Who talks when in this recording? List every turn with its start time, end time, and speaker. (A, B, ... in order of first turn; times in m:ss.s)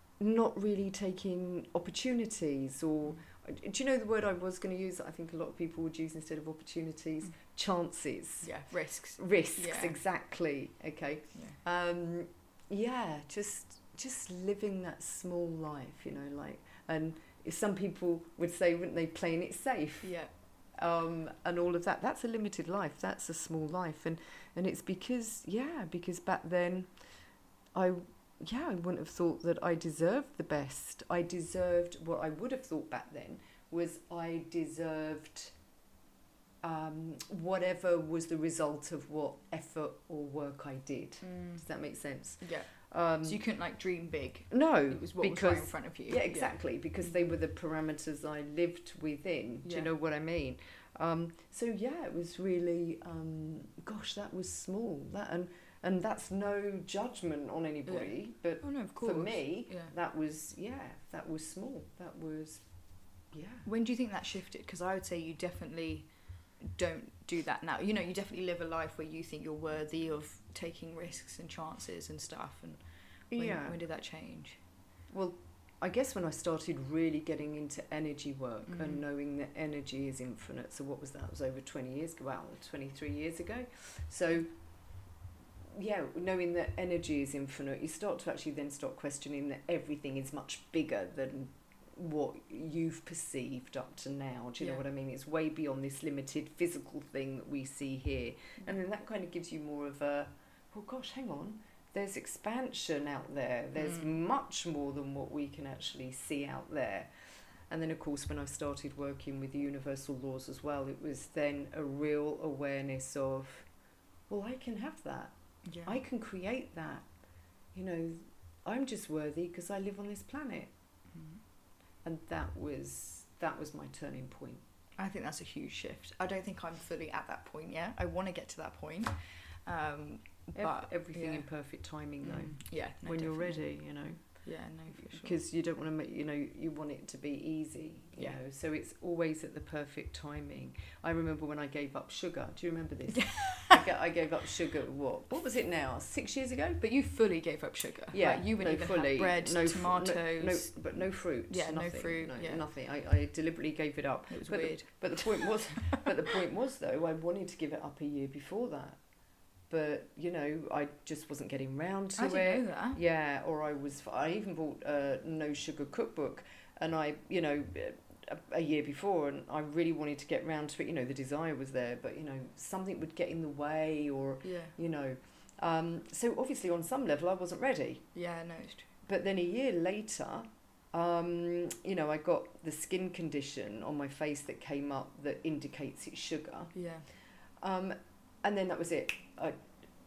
0:00.2-0:20.2 A
0:08.4-0:10.0 B
0:20.0-0:20.3 B
0:20.7-0:26.9 A
0:27.7-0:35.5 A
0:36.6-0:43.4 A
0:41.2-0:41.6 B
0:42.4-0:46.6 B
0:44.5-1:02.6 A
0:49.6-0:49.9 B
0:57.9-0:59.9 B
1:03.3-1:03.7 A
1:03.6-1:06.1 B
1:06.6-1:12.8 B
1:13.3-1:13.8 A
1:13.3-1:14.6 B
1:15.1-1:24.5 A
1:18.6-1:19.0 B
1:25.7-1:47.1 A
1:47.7-1:53.7 A
1:54.3-1:55.3 A
1:55.6-1:56.0 B
1:55.8-1:57.1 A
1:57.7-2:00.7 A
2:01.1-2:01.4 B
2:02.0-2:04.6 A
2:05.0-2:09.2 B
2:09.7-2:11.5 B
2:10.6-2:14.2 A
2:12.2-2:13.7 B
2:14.3-2:15.4 B
2:14.9-2:26.8 A
2:23.1-2:23.8 B
2:26.8-2:30.8 B
2:28.1-2:39.0 A
2:31.5-2:32.6 B
2:34.3-2:36.1 B
2:39.7-2:58.0 A
2:42.2-2:43.0 B
2:54.4-2:54.7 B
2:58.1-2:58.9 B
2:59.0-3:06.7 A
3:06.7-3:07.1 B
3:07.6-3:09.6 A